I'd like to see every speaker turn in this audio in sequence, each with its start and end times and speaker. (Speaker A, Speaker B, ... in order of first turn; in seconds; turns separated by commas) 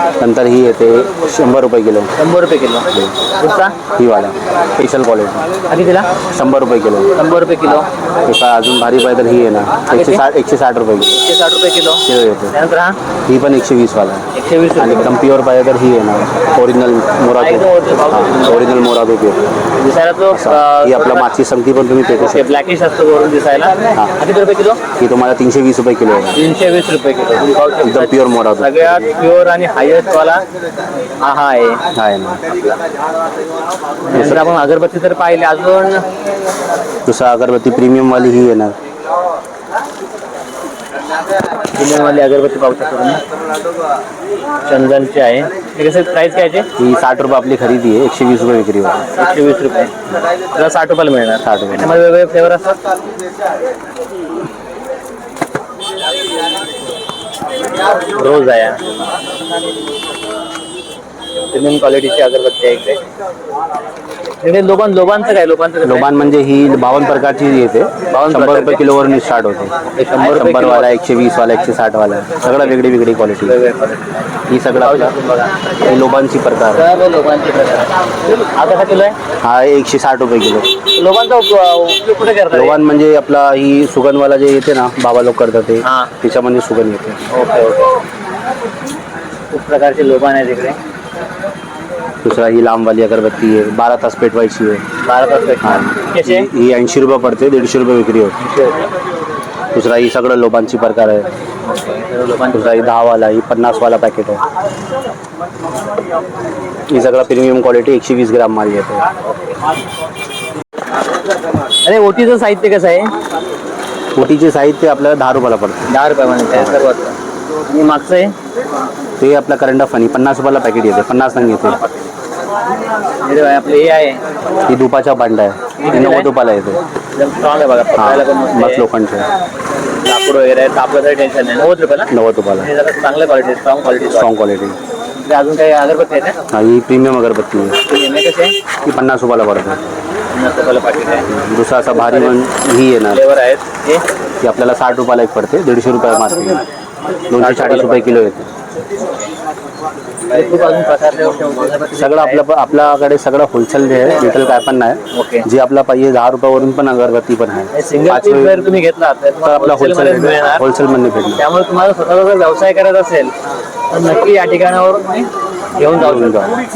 Speaker A: 0.2-2.1, Speaker B: 2.2-3.8, Speaker A: 4.0-5.5, Speaker B: 5.7-6.1, Speaker A: 6.3-11.2, Speaker B: 7.2-7.9, Speaker B: 9.9-10.2, Speaker B: 11.2-13.0, Speaker A: 12.0-12.5, Speaker A: 13.3-19.4, Speaker B: 14.3-15.1, Speaker B: 17.4-18.7, Speaker B: 19.8-21.3, Speaker A: 20.3-22.4, Speaker B: 22.2-24.8, Speaker A: 25.0-26.4, Speaker B: 26.4-30.4, Speaker A: 27.8-29.1, Speaker B: 31.2-31.8, Speaker A: 31.9-32.6, Speaker B: 34.0-36.0, Speaker A: 34.1-34.5, Speaker A: 37.0-38.8, Speaker B: 41.7-43.2, Speaker B: 44.6-46.7, Speaker A: 46.8-49.1, Speaker B: 49.1-49.9, Speaker B: 50.5-52.8, Speaker A: 51.4-52.0, Speaker B: 58.1-58.8, Speaker B: 61.5-63.0, Speaker B: 64.4-66.2, Speaker A: 65.8-73.6, Speaker B: 68.1-68.9, Speaker B: 70.0-70.9, Speaker B: 72.5-72.7, Speaker B: 73.4-75.5, Speaker A: 74.5-75.1, Speaker A: 75.8-76.9, Speaker B: 76.7-79.2, Speaker A: 79.4-80.7, Speaker B: 81.0-82.8, Speaker A: 82.5-87.3, Speaker B: 85.8-86.1, Speaker B: 87.3-88.0, Speaker B: 89.5-90.8, Speaker A: 92.2-94.8, Speaker B: 95.0-96.5, Speaker A: 95.6-98.4, Speaker B: 98.4-98.9, Speaker A: 99.7-101.3, Speaker B: 101.6-102.9, Speaker A: 102.5-104.4, Speaker A: 106.9-109.1, Speaker B: 111.8-113.1, Speaker A: 114.2-115.9, Speaker B: 115.9-117.1, Speaker B: 117.7-118.3, Speaker A: 119.2-121.8, Speaker B: 121.6-122.0, Speaker B: 123.2-124.2, Speaker A: 124.7-126.8, Speaker B: 125.8-126.3, Speaker B: 127.1-128.8, Speaker A: 128.0-129.3, Speaker B: 130.0-132.1, Speaker A: 132.1-132.7, Speaker B: 132.6-134.3, Speaker A: 134.1-134.8, Speaker B: 135.2-136.3, Speaker A: 136.5-137.8, Speaker B: 137.9-138.5, Speaker A: 138.8-139.8, Speaker B: 140.3-141.3, Speaker A: 141.3-143.2, Speaker B: 141.9-142.4, Speaker B: 143.1-144.0, Speaker A: 144.4-146.6, Speaker A: 147.3-148.5, Speaker B: 147.3-148.2, Speaker B: 149.0-149.3, Speaker B: 150.3-152.4, Speaker A: 151.9-158.7, Speaker B: 155.1-155.5, Speaker B: 157.7-160.6, Speaker A: 159.4-161.4, Speaker B: 161.4-163.3, Speaker B: 163.9-166.4, Speaker A: 165.9-166.6